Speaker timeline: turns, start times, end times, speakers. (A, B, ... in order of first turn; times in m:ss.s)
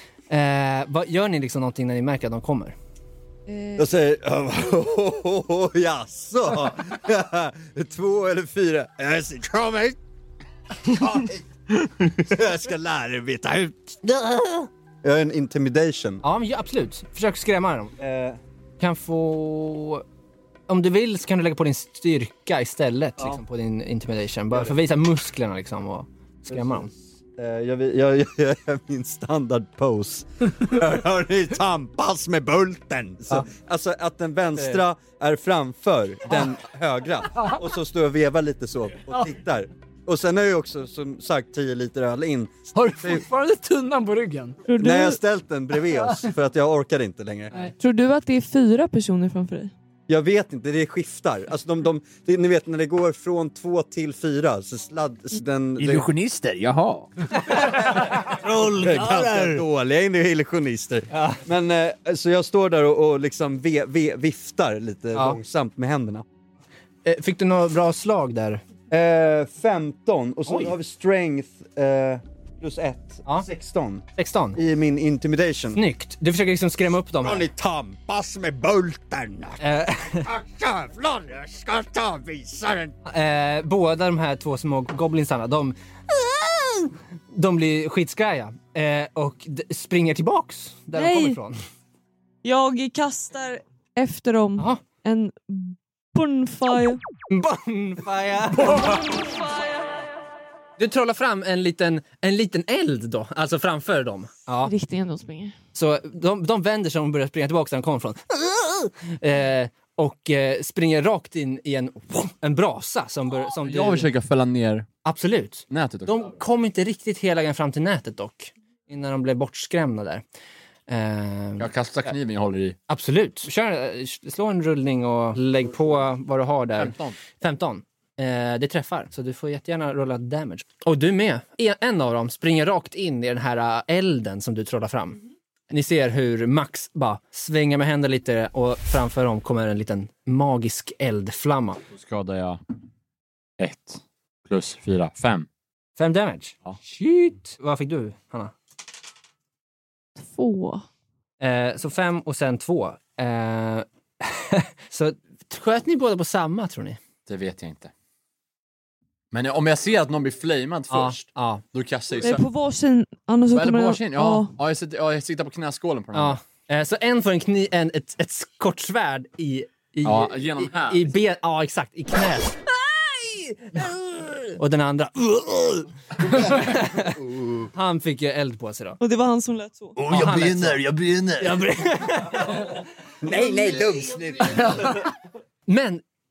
0:00.3-0:02.7 A
0:03.5-0:03.8 B
0:03.8-0:10.0 C
0:10.8-0:11.5 C
0:12.1-0:14.0 C
0:14.0-0:14.7 A
0:15.0-0:16.2 C
0:16.2-0:17.9 A
0:18.0-0:18.4 C
0:18.8-0:20.0 A
0:20.7-0:26.9 A
0:26.5-0:43.2 C
0:42.7-0:44.6 D
0:44.7-0:45.2 B
0:44.8-0:47.6 C
0:47.8-0:49.7 B
0:50.1-0:56.1 C
0:55.8-0:57.1 E
0:57.5-1:06.2 C
0:57.5-0:59.6 A
1:01.1-1:01.4 A
1:07.0-1:08.6 A
1:08.9-1:15.8 C
1:10.5-1:10.7 A
1:14.1-1:14.6 A
1:15.7-1:17.4 A
1:17.2-1:19.6 C
1:19.6-1:20.3 A
1:20.2-1:22.9 C
1:23.1-1:31.6 A
1:30.9-1:31.4 B
1:32.4-1:37.0 B
1:37.3-1:39.0 A
1:38.6-1:39.9 B
1:40.8-1:44.7 A
1:44.6-1:45.6 B
1:45.7-1:54.1 A
1:53.4-1:54.9 E
1:55.0-2:00.2 A
1:55.7-1:56.3 E
2:00.9-2:02.1 A
2:01.6-2:02.8 E
2:02.9-2:15.2 A
2:06.8-2:07.2 E
2:15.7-2:21.8 A
2:21.9-2:22.6 E
2:23.6-2:25.5 E
2:26.0-2:28.5 A
2:30.2-2:30.8 B
2:31.4-2:37.0 A
2:37.2-2:37.9 E
2:39.3-2:42.4 E
2:40.9-2:41.6 A
2:42.1-2:44.5 B
2:43.5-2:46.4 E
2:46.1-2:59.0 A
2:50.0-2:51.0 E
2:57.1-2:57.6 C
2:59.0-3:00.0 B
3:00.0-3:01.6 E
3:00.0-3:02.8 A
3:03.2-3:04.9 C
3:04.6-3:05.0 D
3:05.7-3:06.0 A